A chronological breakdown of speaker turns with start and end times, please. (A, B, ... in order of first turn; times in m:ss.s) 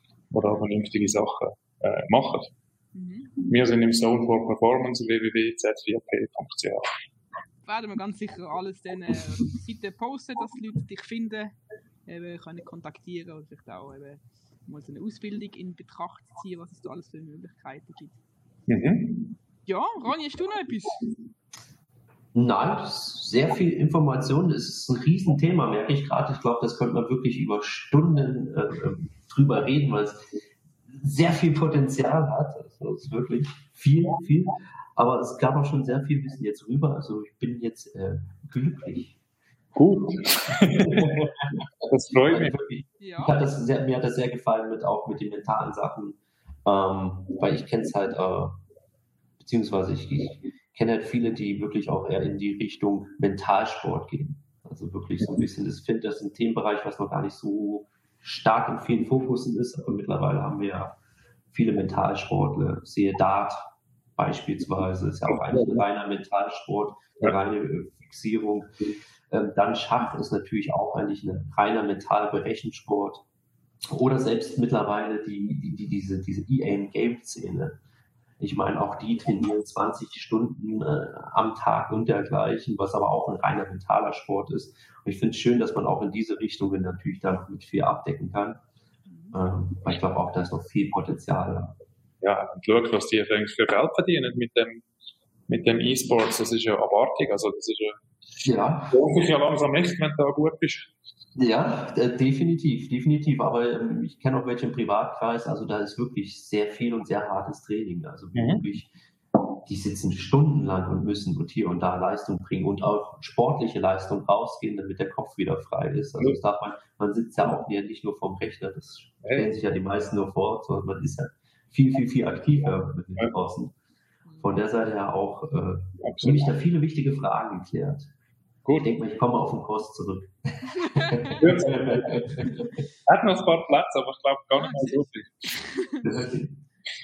0:00.3-0:02.5 A
0:02.9-0:03.3 B
0:03.4-0:06.9 A
0:07.6-0:11.5 B
0:12.0-0:18.2 B
0:18.7-0:19.3 A
0:19.6-0:21.1 B
0:22.3-0:30.2 C
0:30.9-0:39.2 C
0:39.8-0:41.3 A
0:40.5-0:41.6 C
0:41.8-0:42.5 A
0:42.2-0:48.5 C
0:43.0-0:43.4 B
0:49.4-1:01.0 C
1:01.5-1:08.7 C
1:05.4-1:05.8 A
1:09.3-1:13.2 C
1:13.9-1:17.8 C
1:18.4-1:28.6 C
1:29.1-1:29.4 B
1:29.3-1:31.8 C
1:32.2-1:34.8 A
1:35.5-1:38.0 A
1:38.4-1:39.0 C
1:38.9-1:40.9 A
1:41.4-1:48.9 C
1:48.3-1:48.6 A
1:49.6-2:03.7 C
1:59.2-1:59.5 A
2:04.4-2:08.1 C
2:06.0-2:06.5 A
2:08.6-2:08.9 A
2:08.8-2:12.7 C
2:10.8-2:11.4 B
2:11.4-2:12.5 A
2:13.0-2:15.5 A
2:14.5-2:16.0 B
2:16.0-2:16.5 C